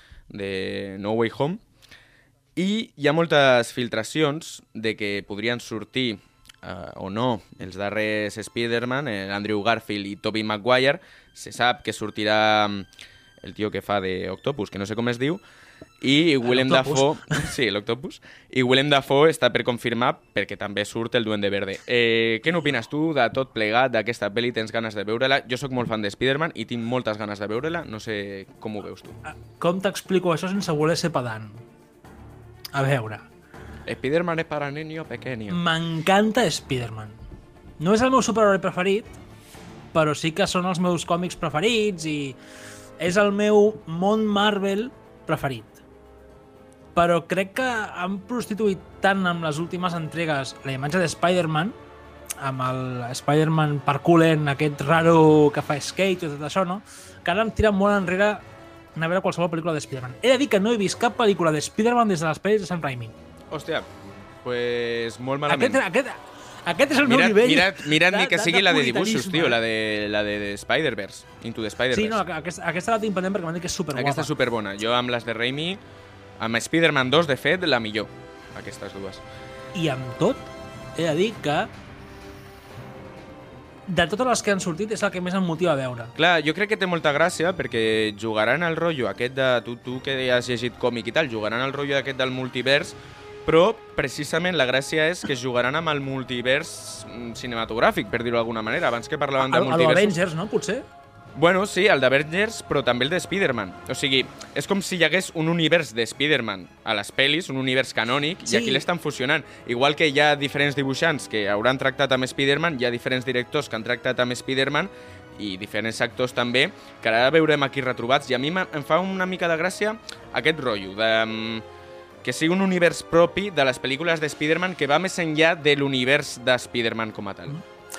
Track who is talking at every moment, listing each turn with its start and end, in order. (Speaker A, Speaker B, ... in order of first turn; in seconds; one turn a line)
Speaker A: 0.3-1.6
Speaker A: 2.5-12.9
Speaker A: 13.4-15.4
Speaker A: 16.0-29.2
Speaker B: 16.4-17.4
Speaker B: 29.3-31.6
Speaker B: 32.7-33.3
Speaker A: 33.9-35.6
Speaker B: 35.5-37.2
Speaker B: 37.8-39.1
Speaker B: 39.9-42.4
Speaker B: 43.0-45.8
Speaker B: 46.9-51.8
Speaker B: 52.4-58.4
Speaker B: 59.0-63.1
Speaker A: 63.5-63.9
Speaker A: 64.4-65.8
Speaker B: 65.5-69.6
Speaker A: 67.0-72.2
Speaker B: 71.9-74.3
Speaker A: 73.9-75.8
Speaker A: 76.4-79.2
Speaker B: 79.7-81.7
Speaker B: 83.9-86.1
Speaker A: 86.2-100.1
Speaker B: 99.4-100.8
Speaker A: 101.3-121.6
Speaker B: 108.5-108.8
Speaker A: 122.2-127.6